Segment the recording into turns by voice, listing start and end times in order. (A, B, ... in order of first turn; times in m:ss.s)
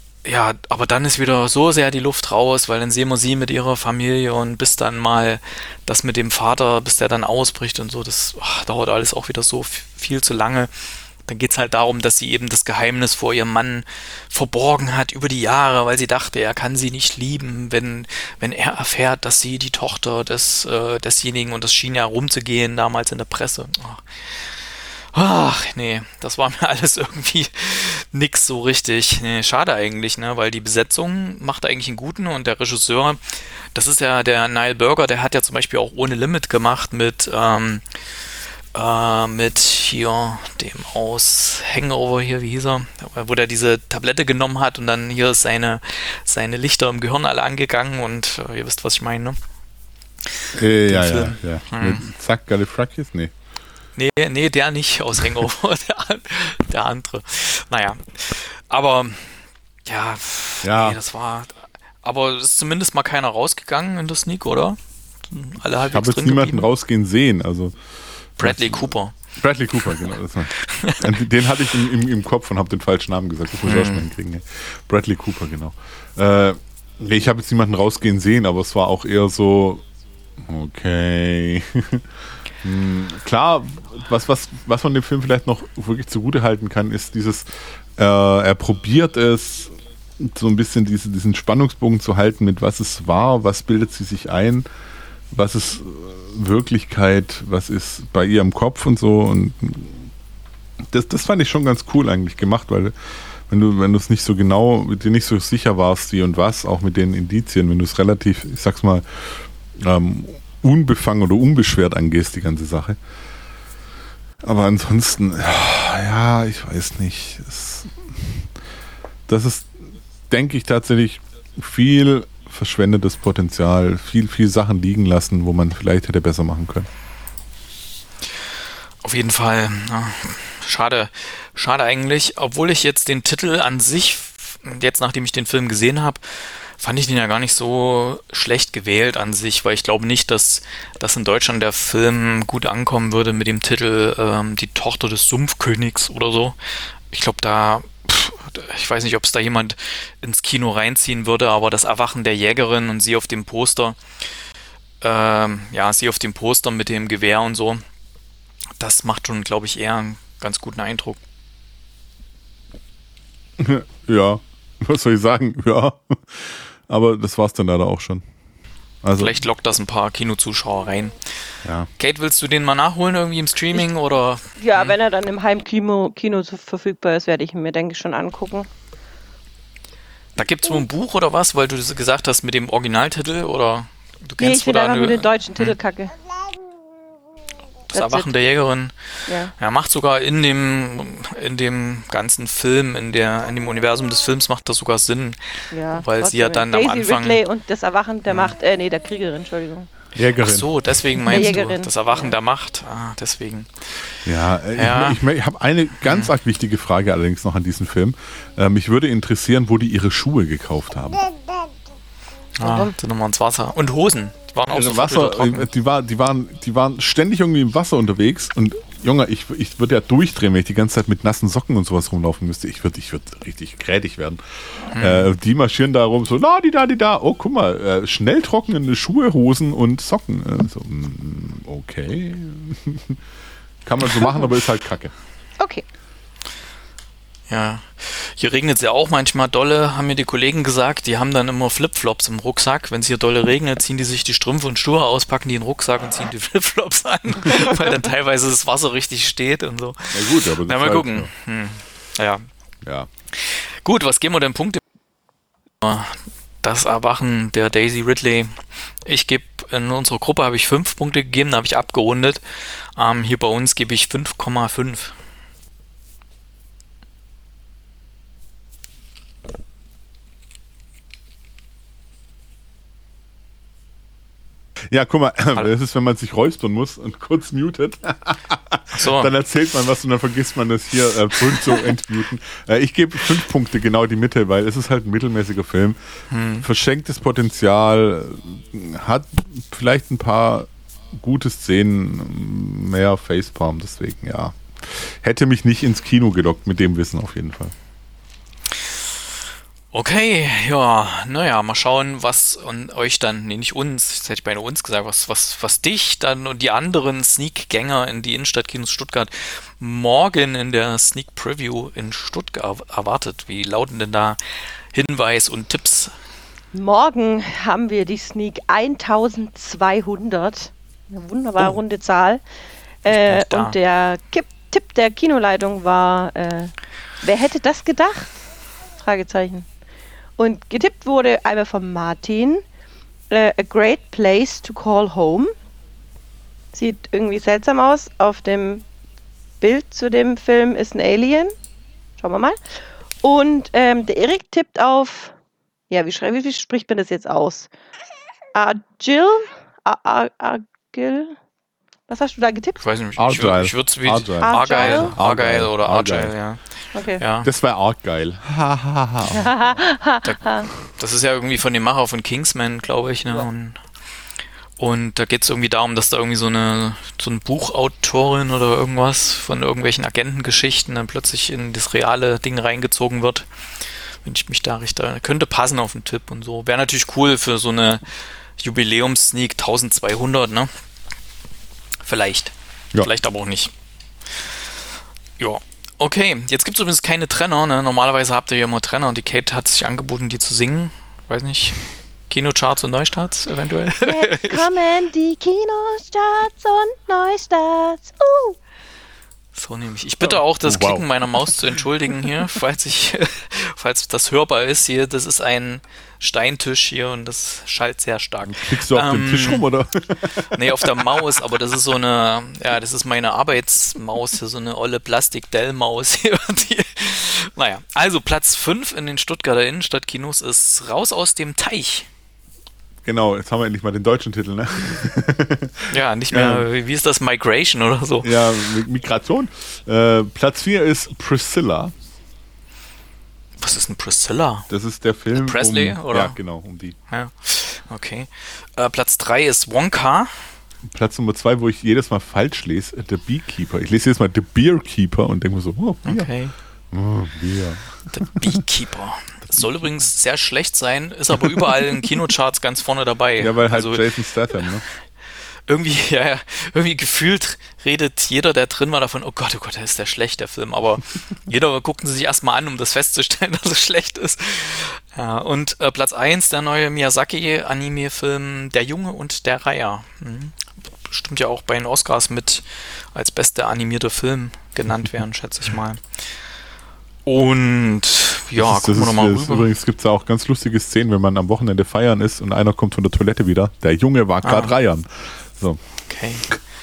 0:00.2-0:10.7 A
0:11.2-0:24.6 A
0:25.1-0:33.2 A
0:33.7-0:37.8 A
0:38.8-0:49.4 A
0:50.2-0:52.0 A
0:50.5-0:53.3 B
0:54.0-1:06.7 A
1:00.6-1:01.0 B
1:05.9-1:07.8 B
1:08.4-1:19.8 B
1:08.4-1:09.1 A
1:09.8-1:11.2 A
1:13.6-1:14.1 A
1:20.4-1:22.0 B
1:22.6-1:34.7 B
1:35.3-1:40.1 B
1:40.9-1:42.9 B
1:43.5-1:53.0 B
1:54.4-1:58.4 B
1:59.3-2:06.9 B
2:09.0-2:26.6 A
2:27.1-2:34.0 A
2:35.0-2:37.8 A
2:38.8-2:41.2 A
2:43.6-2:48.2 B
2:49.0-2:49.4 B
2:49.2-2:51.2 A
2:52.0-2:55.0 A
2:54.6-2:58.7 C
3:00.4-3:05.8 A
3:04.4-3:06.1 C
3:07.9-3:08.3 C
3:07.9-3:08.9 A
3:09.3-3:09.5 C
3:09.6-3:17.4 A
3:15.7-3:19.9 C
3:20.1-3:20.7 B
3:20.4-3:24.2 A
3:21.3-3:22.4 C
3:24.2-3:31.2 B
3:24.7-3:25.2 A
3:26.0-3:26.3 A
3:32.6-3:35.7 A
3:32.6-3:32.9 C
3:34.7-3:44.4 B
3:44.9-3:45.3 A
3:44.9-3:53.2 B
3:53.8-3:55.1 B
3:57.5-4:12.5 A
4:10.1-4:11.3 B
4:12.8-4:13.1 B
4:13.3-4:14.8 A
4:15.8-4:25.2 A
4:34.9-4:46.0 B
4:39.0-4:39.3 A
4:46.3-4:46.7 A
4:46.6-4:57.7 B
4:59.9-5:14.4 A
5:14.9-5:16.1 A
5:16.7-5:22.4 C
5:23.0-5:28.4 C
5:23.1-5:23.8 A
5:29.0-5:29.7 C
5:30.4-5:32.6 C
5:33.3-5:35.5 C
5:36.7-5:38.8 C
5:39.6-5:41.5 C
5:42.2-5:42.6 C
5:43.2-5:45.3 C
5:45.9-5:47.7 C
5:48.5-5:51.4 C
5:52.1-5:52.8 C
5:52.8-5:56.6 A
5:53.2-5:56.3 B
5:54.4-5:55.1 C
5:56.9-5:57.2 C
5:57.2-5:57.5 A
5:57.4-5:59.5 B
5:59.3-6:00.7 C
6:00.2-6:03.8 A
6:04.8-6:13.5 A
6:14.2-6:18.0 A
6:18.6-6:20.7 A
6:22.0-6:23.7 A
6:25.4-6:34.7 A
6:34.0-6:38.6 C
6:39.5-6:49.7 A
6:40.2-6:41.8 B
6:48.5-6:51.6 B
6:50.4-7:02.1 A
7:03.0-7:06.7 B
7:05.9-7:08.7 A
7:08.2-7:11.9 B
7:13.6-7:14.7 A
7:14.7-7:17.0 B
7:15.3-7:16.4 A
7:17.1-7:20.4 A
7:20.9-7:26.3 B
7:26.0-7:26.5 A
7:26.9-7:28.6 B
7:28.1-7:34.8 A
7:31.4-7:31.9 B
7:33.4-7:34.8 B
7:35.7-7:56.0 A
7:57.2-7:59.7 A
7:58.6-8:05.8 B
8:04.4-8:04.8 A
8:06.1-8:06.5 A